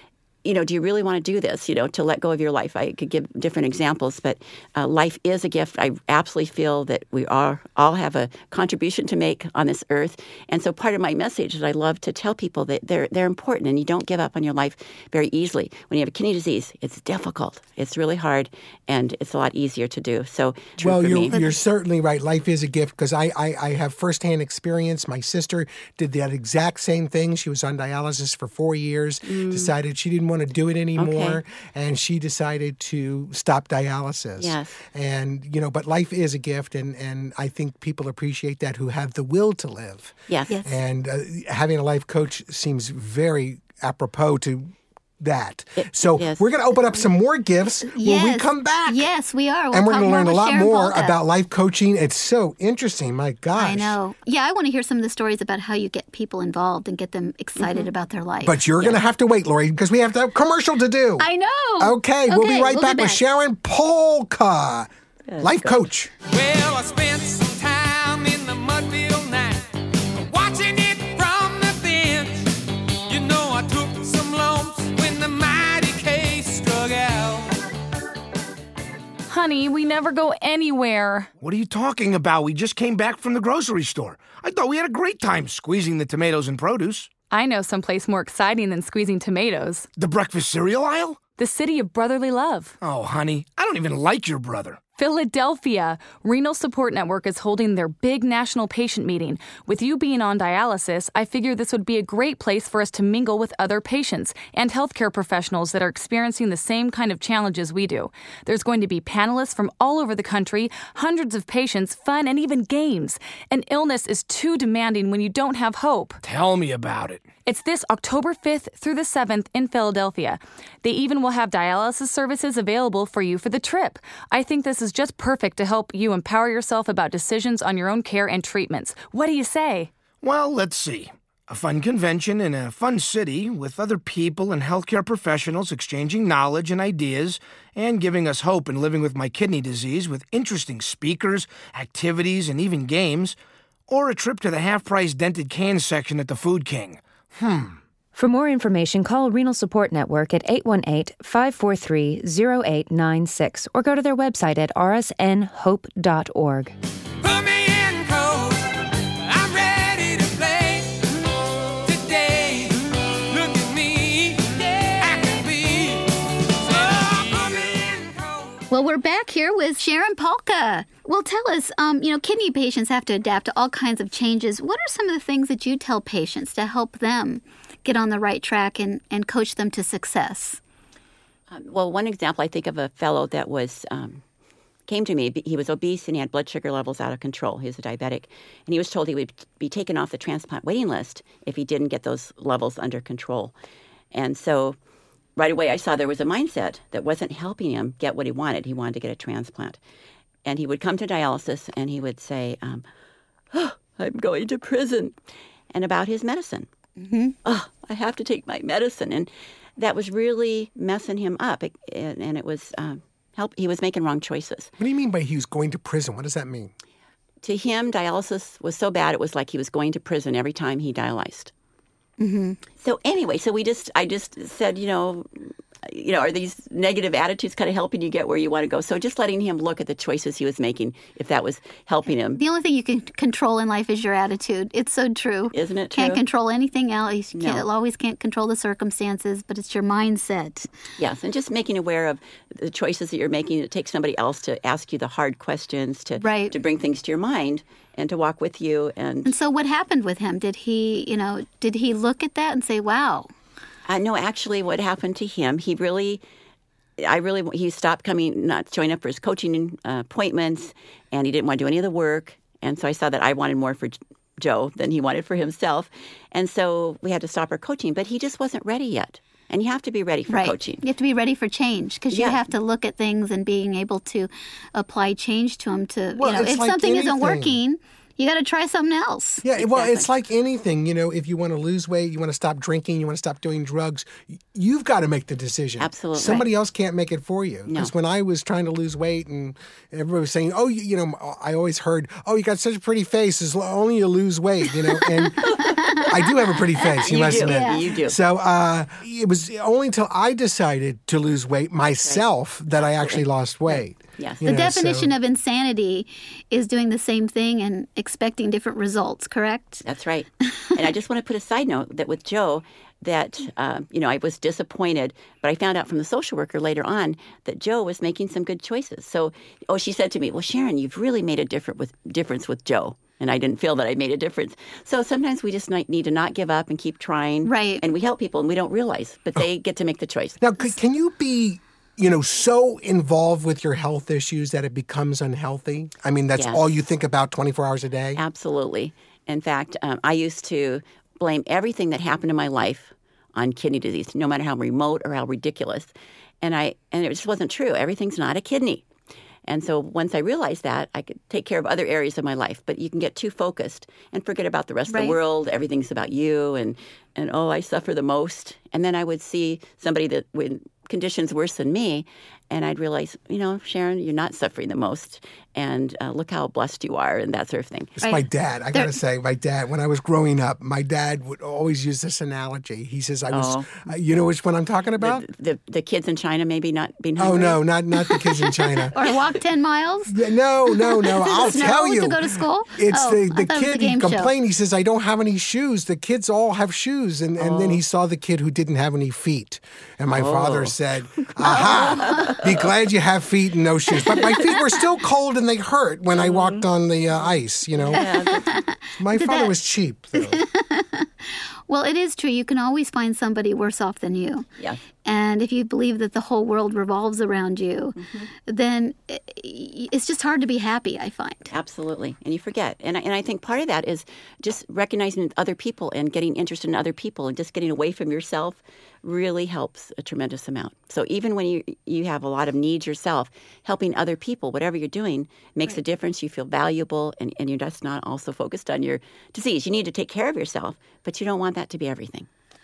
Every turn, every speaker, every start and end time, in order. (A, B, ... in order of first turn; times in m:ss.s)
0:00.4-0:21.3 A
0:20.8-0:49.1 B
0:29.3-0:29.7 A
0:31.0-0:31.4 A
0:34.4-0:34.8 A
0:40.3-0:40.5 A
0:45.8-0:46.5 A
0:47.9-0:51.2 C
0:49.7-0:54.0 B
0:53.5-0:58.6 C
0:58.4-1:01.3 B
1:01.2-1:03.2 C
1:01.8-1:04.9 B
1:05.3-1:05.8 A
1:05.4-1:06.1 B
1:06.3-1:17.6 D
1:19.3-1:21.3 E
1:21.4-1:27.1 F
1:27.3-1:29.9 E
1:30.0-1:31.2 F
1:31.4-1:32.8 E
1:32.8-1:34.8 F
1:35.0-1:56.2 E
1:56.2-1:57.2 F
1:57.4-2:09.9 E
2:10.2-2:23.4 F
2:23.9-2:27.8 F
2:28.1-2:36.7 G
2:37.2-2:48.6 D
2:48.7-3:00.6 C
3:01.5-3:04.2 A
3:04.9-3:13.5 A
3:14.1-3:14.8 A
3:15.4-3:19.8 A
3:20.4-3:22.8 A
3:23.5-3:25.1 A
3:25.7-3:26.7 A
3:27.0-3:27.3 C
3:27.4-3:34.7 A
3:34.8-3:36.7 B
3:37.4-3:41.5 A
3:42.2-3:42.6 C
3:42.8-3:52.4 A
3:52.4-4:00.7 C
3:55.5-3:56.2 A
3:57.3-3:57.6 A
4:01.0-4:09.3 A
4:06.2-4:06.5 C
4:09.2-4:13.3 C
4:13.9-4:16.2 A
4:17.0-4:30.8 A
4:30.3-4:39.4 C
4:32.1-4:32.4 A
4:36.2-4:37.6 B
4:39.4-5:05.1 B
4:39.6-4:40.1 A
4:45.8-4:46.5 A
4:55.4-4:56.1 C
4:57.0-4:58.2 A
4:57.2-4:57.8 C
5:02.8-5:04.4 A
5:04.4-5:09.8 C
5:09.8-5:30.4 A
5:27.4-5:27.8 C
5:30.4-5:38.2 B
5:36.3-5:36.6 A
5:38.2-5:48.8 A
5:49.4-6:08.0 A
5:54.9-5:55.2 C
6:08.0-6:15.2 B
6:08.0-6:09.0 C
6:13.3-6:13.7 A
6:15.0-6:17.6 A
6:17.2-6:18.9 B
6:18.8-6:20.1 C
6:20.1-6:38.1 B
6:20.7-6:24.3 C
6:27.4-6:27.8 A
6:30.1-6:32.5 A
6:31.5-6:32.3 C
6:36.1-6:36.6 A
6:37.8-6:38.6 A
6:37.9-6:39.6 C
6:39.0-6:40.4 B
6:40.1-6:44.4 C
6:45.0-6:51.5 C
6:48.0-6:48.3 A
6:51.5-7:12.3 A